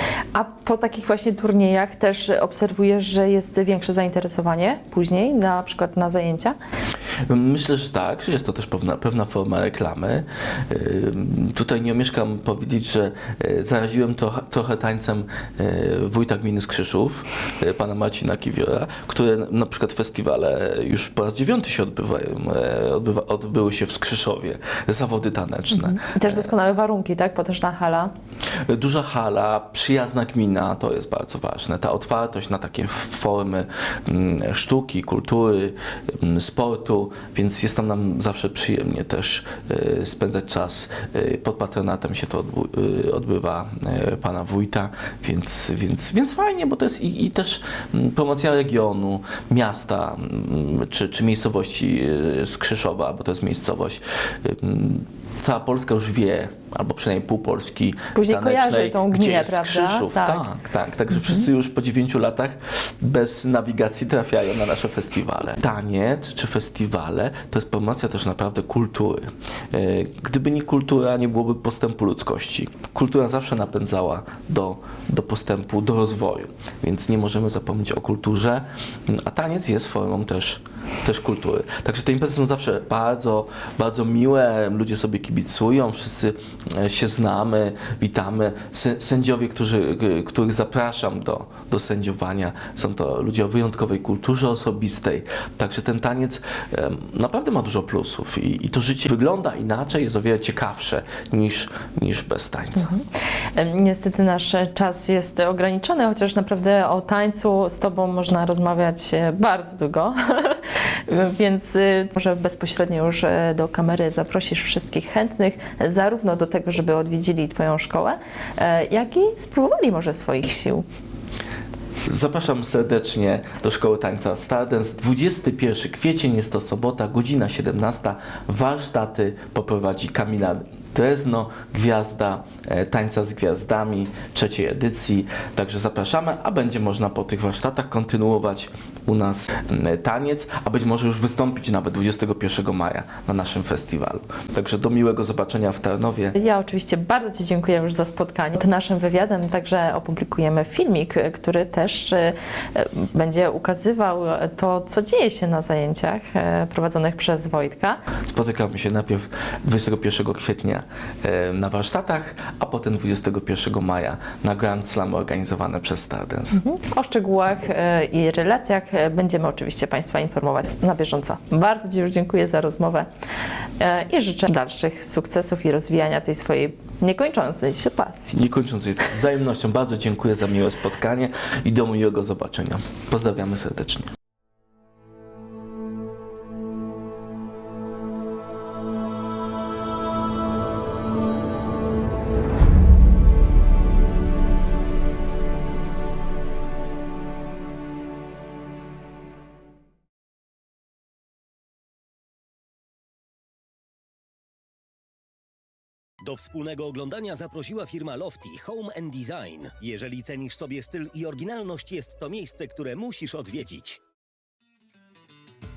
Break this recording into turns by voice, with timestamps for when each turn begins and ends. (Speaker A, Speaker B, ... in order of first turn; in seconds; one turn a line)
Speaker A: 0.3-6.5
Speaker B: 7.3-26.5
Speaker A: 25.7-28.1
Speaker B: 28.6-103.0
Speaker A: 58.1-60.5
Speaker A: 103.5-120.8
Speaker B: 122.1-146.4
Speaker A: 146.4-158.0
Speaker B: 158.3-166.6
Speaker A: 166.5-173.1
Speaker A: 173.8-178.3
Speaker B: 178.3-184.1
Speaker C: 206.2-214.0